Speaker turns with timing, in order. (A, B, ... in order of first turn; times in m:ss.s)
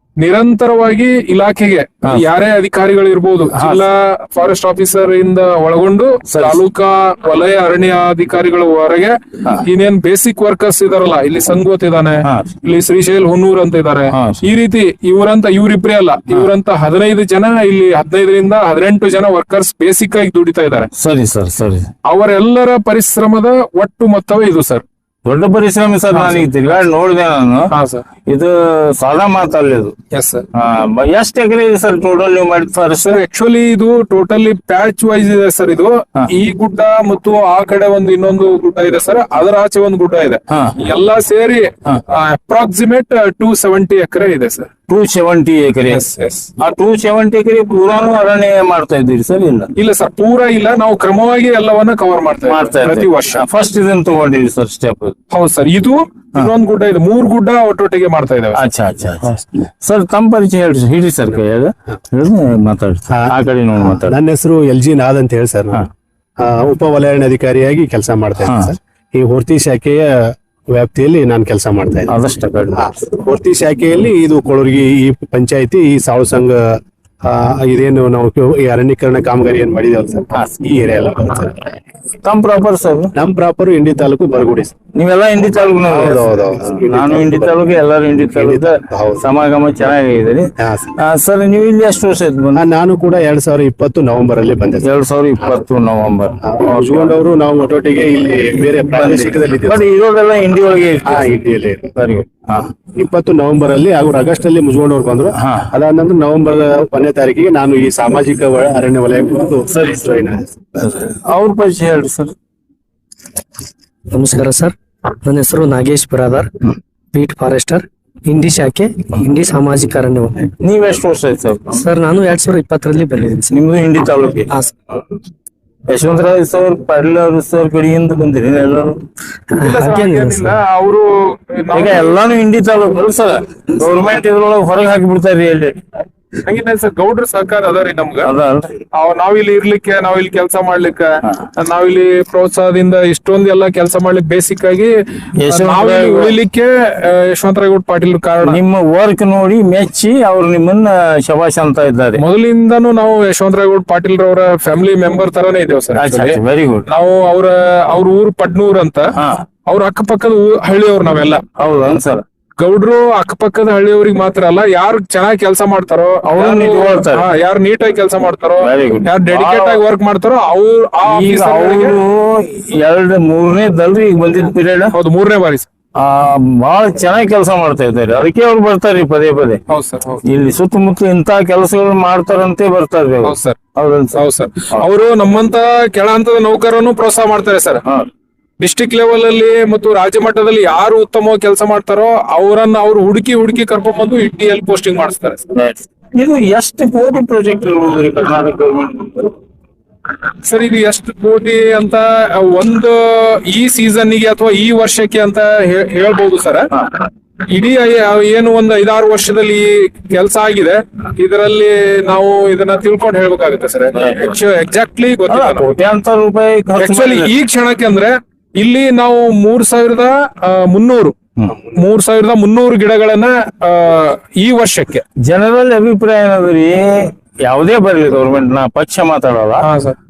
0:00.2-0:20.9 A
0:03.5-0:03.8 B
0:06.3-0:06.6 B
0:12.2-0:12.5 B
0:14.1-0:14.4 B
0:21.0-0:21.9 B
0:22.1-0:24.8 A
0:25.2-0:27.7 B
0:26.1-0:26.4 A
0:27.7-0:28.0 A
0:28.3-0:30.0 B
0:30.1-0:30.4 A
0:30.5-0:33.2 B
0:33.0-0:44.7 A
0:40.5-0:40.8 B
0:44.9-0:46.0 B
0:45.9-0:46.5 A
0:46.6-0:49.7 B
0:49.8-0:53.4 A
0:52.5-0:55.2 B
0:55.3-0:58.6 A
0:58.6-1:04.2 B
1:03.1-1:05.9 C
1:06.4-1:12.2 C
1:08.4-1:08.7 B
1:12.1-1:12.9 B
1:12.8-1:16.6 C
1:17.2-1:21.7 C
1:20.3-1:20.6 B
1:22.2-1:23.1 B
1:23.2-1:24.7 C
1:25.0-1:32.6 B
1:25.8-1:27.6 C
1:28.3-1:29.3 C
1:30.6-1:30.9 C
1:32.5-1:34.9 C
1:34.8-1:37.2 B
1:36.4-1:39.9 C
1:38.9-1:41.4 B
1:41.0-1:42.0 C
1:42.0-1:42.7 B
1:43.0-1:50.4 C
1:45.4-1:45.7 B
1:50.8-1:52.3 B
1:54.1-1:56.5 D
1:57.1-2:00.4 D
2:00.6-2:01.8 B
2:01.7-2:03.6 D
2:03.5-2:04.5 B
2:05.9-2:09.0 B
2:09.5-2:10.6 D
2:09.6-2:12.2 A
2:11.7-2:15.8 B
2:16.5-2:18.3 A
2:18.2-2:18.8 B
2:18.9-2:28.6 A
2:25.4-2:26.3 B
2:28.4-2:32.2 B
2:32.2-2:39.2 A
2:36.0-2:36.8 B
2:39.2-2:39.4 B
2:39.7-2:41.4 A
2:41.6-2:42.2 B
2:42.6-2:52.0 A
2:46.4-2:47.3 B
2:48.6-2:49.8 B
2:51.1-2:55.0 B
2:54.9-2:55.7 A
2:56.0-2:59.6 B
2:59.7-3:00.2 A
3:00.3-3:04.2 B
3:03.2-3:03.6 A
3:04.2-3:07.8 A
3:08.6-3:15.4 A
3:15.5-3:19.3 B
3:20.4-3:26.7 A
3:27.5-3:35.7 A
3:34.0-3:34.3 B
3:35.3-3:37.3 B
3:36.8-3:41.2 A
3:41.8-3:45.0 A
3:45.2-3:49.7 B
3:49.6-3:50.0 A